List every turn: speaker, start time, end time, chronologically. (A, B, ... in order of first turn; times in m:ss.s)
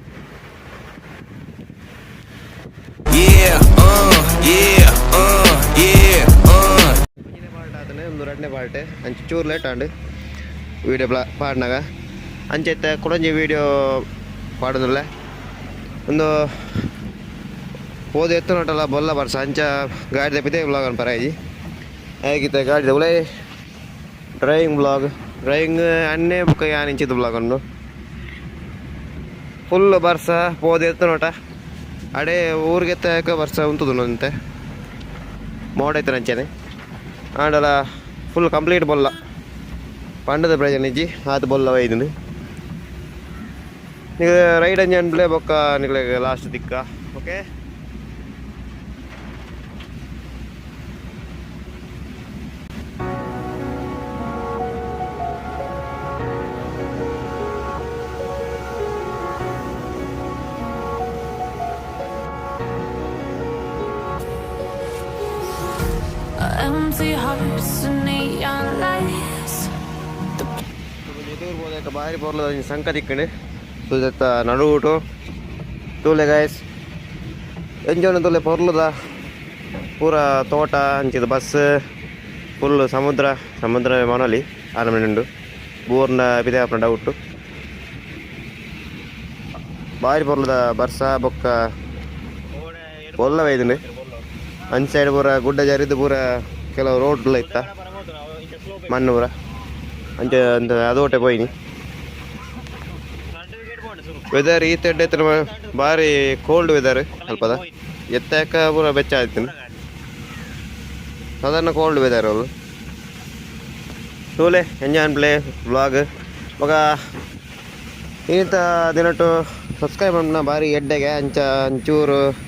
0:03.1-0:07.0 A
0:07.1-0:09.9 B
0:10.8-0:11.8 B
0:12.5-0:14.0 B
0:14.6-0:15.0 B
0:16.1-0:16.8 B
0:18.1-0:21.3 B
0:22.2-0:23.2 B
0:24.4-0:27.6 B
0:29.7-0:31.3 B
0:32.2-0:34.3 B
0:35.8-0:36.5 B
0:37.4-0:37.8 B
0:38.3-0:39.2 B
0:40.2-0:42.1 B
0:44.2-0:47.4 B
1:06.2-1:09.7 C
1:11.0-1:13.3 B
1:13.8-1:15.0 B
1:16.0-1:16.6 B
1:17.9-1:18.9 B
1:20.0-1:21.6 B
1:22.6-1:25.2 B
1:25.9-1:27.2 B
1:30.0-1:31.5 B
1:32.6-1:33.0 A
1:33.1-1:33.8 B
1:34.7-1:37.7 B
1:37.8-1:38.8 A
1:38.8-1:39.3 B
1:40.2-1:41.5 B
1:43.4-1:44.2 A
1:44.3-1:49.6 B
1:51.4-1:52.5 B
1:54.4-1:56.0 B
1:58.3-2:02.2 B